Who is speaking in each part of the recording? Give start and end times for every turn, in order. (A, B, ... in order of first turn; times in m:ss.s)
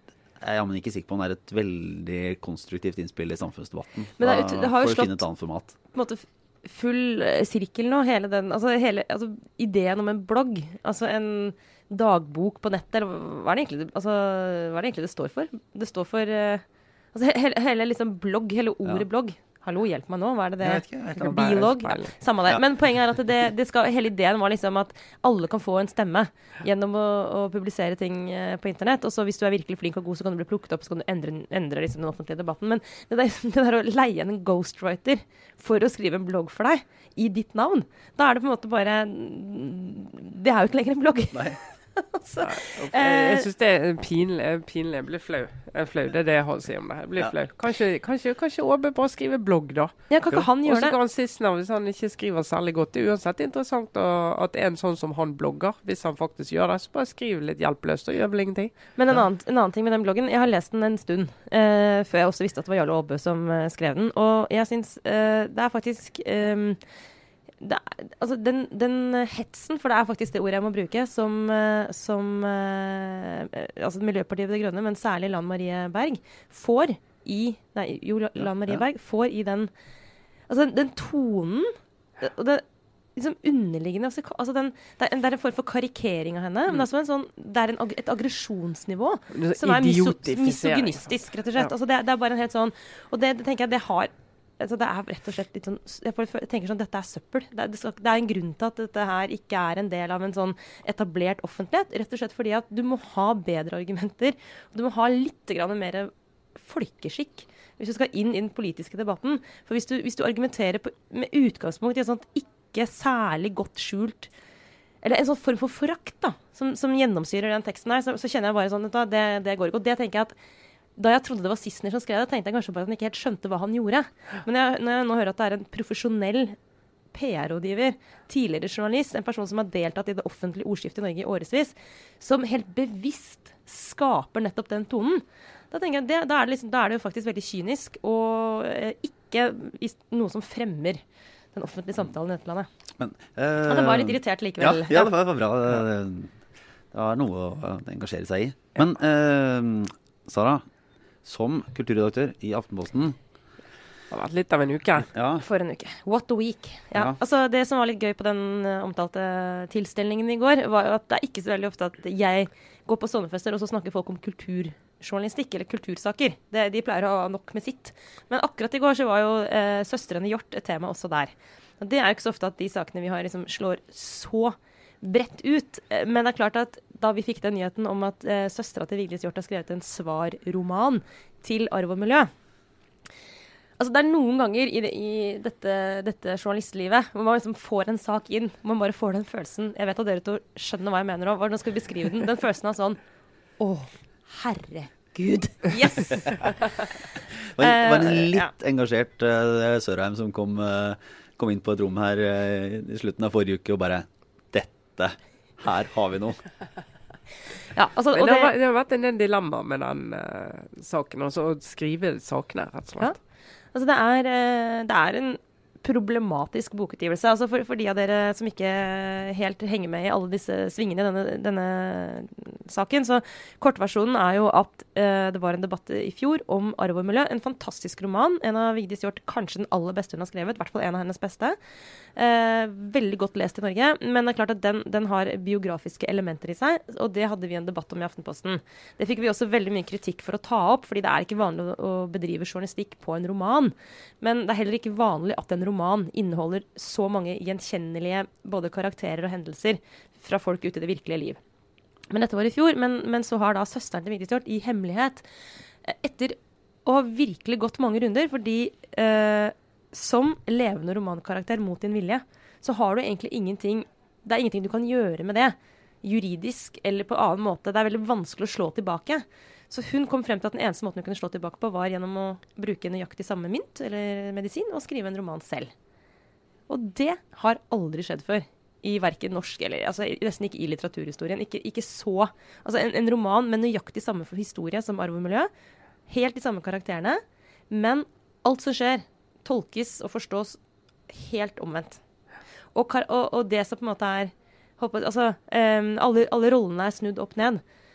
0:00.4-0:05.8 A
0:04.2-0:05.2 B
0:05.9-0:43.5 B
0:20.6-0:21.7 A
0:21.2-0:22.1 C
0:41.3-0:41.6 A
0:42.4-0:49.9 C
0:50.1-0:51.0 B
0:50.6-0:58.8 C
0:59.0-1:06.8 B
1:07.6-1:19.7 B
1:18.4-1:18.8 A
1:20.5-1:22.6 B
1:23.2-1:54.3 B
1:29.3-1:31.7 C
1:55.0-2:00.3 B
2:01.0-2:06.6 B
2:07.1-2:21.0 B
2:21.5-2:22.7 B
2:23.0-2:26.3 A
2:23.7-2:25.1 B
2:26.9-2:30.6 A
2:31.2-2:33.2 A
2:34.1-2:35.1 C
2:35.0-2:35.4 A
2:35.4-3:02.3 B
3:03.8-3:13.0 B
3:13.6-3:16.8 B
3:17.5-3:26.4 A
3:17.6-3:18.5 B
3:27.7-3:28.5 B
3:28.1-3:33.1 C
3:33.7-3:51.6 B
3:52.2-4:11.4 B
4:12.1-4:15.2 B
4:15.8-4:35.7 B
4:36.7-4:45.5 B
4:46.1-4:50.6 B
4:51.1-4:52.0 B
4:52.7-4:57.6 B